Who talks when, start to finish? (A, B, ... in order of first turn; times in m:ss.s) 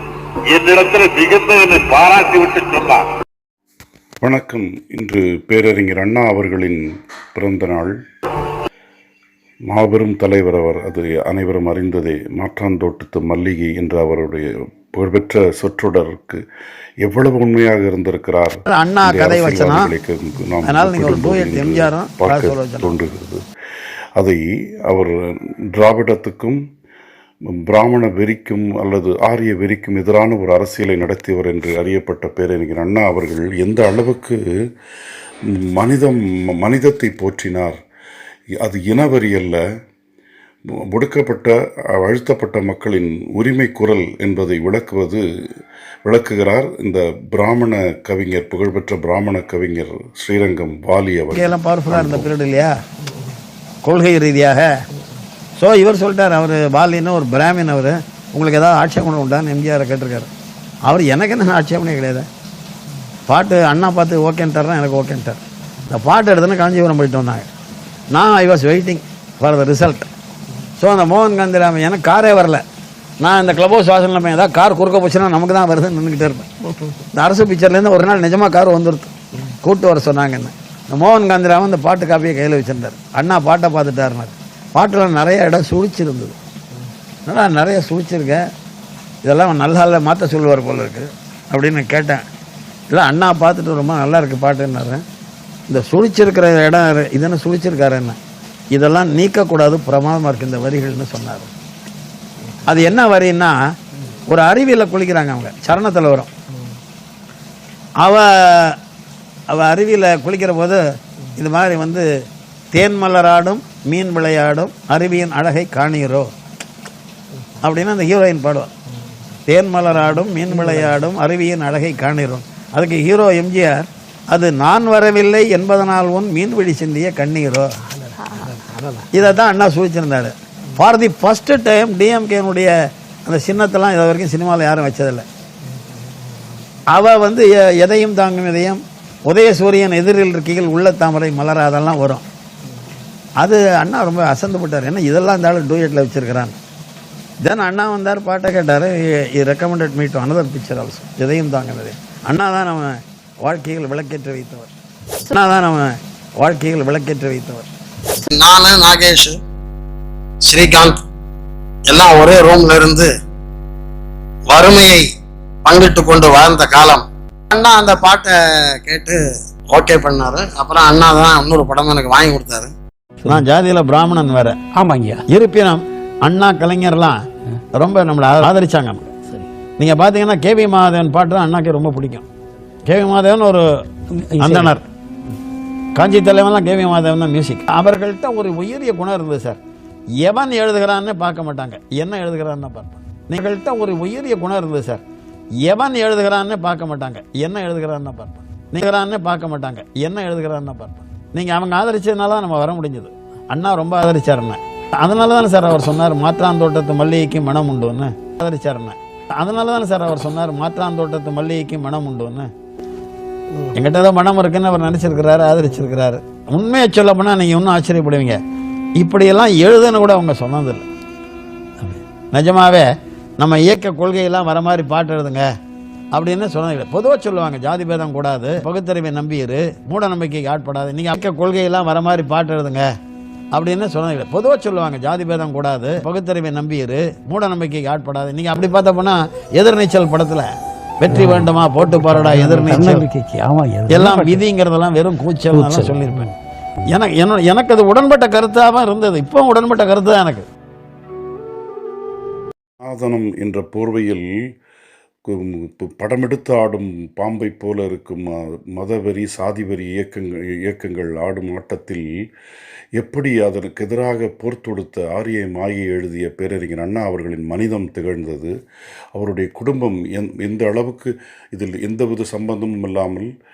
0:00.5-0:03.1 A
0:04.2-0:06.8 B
0:07.4-0:07.9 B
0:09.7-0:16.4 B
0:17.0-0:23.4 B
0:18.7-0:19.9 C
0:20.6-0:22.9 C
0:24.2-0:25.1 B
0:25.8-0:26.6 B
0:27.5-0:34.4 B
0:35.7-0:37.8 B
0:38.6-0:39.6 B
0:40.9-0:45.2 B
0:46.1-0:52.3 B
0:51.3-0:52.8 C
0:53.8-0:54.7 C
0:55.6-1:00.3 C
1:00.9-1:02.3 C
1:03.3-1:07.5 C
1:08.1-1:10.1 C
1:10.8-1:12.6 C
1:13.2-1:16.5 C
1:17.1-1:26.4 C
1:27.3-1:28.4 C
1:29.2-1:32.2 C
1:32.9-1:35.0 C
1:35.7-1:38.2 C
1:38.7-1:41.5 C
1:42.6-1:43.6 C
1:44.3-1:46.3 C
1:48.0-1:48.8 C
1:49.5-1:50.8 C
1:51.4-1:52.1 C
1:52.7-1:56.3 C
1:57.6-1:58.7 C
1:59.5-2:07.7 C
2:09.1-2:12.7 C
2:13.3-2:15.3 C
2:16.9-2:22.2 C
2:23.4-2:26.6 C
2:27.4-2:37.7 C
2:38.3-2:39.4 D
2:40.5-2:41.0 D
2:41.9-2:43.1 D
2:44.5-2:45.1 D
2:45.6-2:52.7 D
2:53.2-2:54.6 C
2:54.8-2:55.2 E
2:55.3-2:57.2 C
2:57.8-2:59.1 C
2:59.8-3:02.2 C
3:02.9-3:03.7 C
3:04.1-3:04.7 E
3:04.4-3:04.9 C
3:06.0-3:09.6 C
3:10.2-3:15.0 C
3:15.6-3:32.5 C
3:33.7-3:38.4 C
3:39.0-3:40.9 C
3:41.8-3:45.5 C
3:46.1-3:52.9 C
3:53.5-4:00.5 C
4:01.0-4:03.1 C
4:01.1-4:04.4 E
4:03.9-4:06.3 C
4:05.5-4:06.3 E
4:06.8-4:10.5 C
4:12.8-4:14.2 B
4:15.3-4:22.1 B
4:23.0-4:28.5 B
4:29.2-4:33.3 B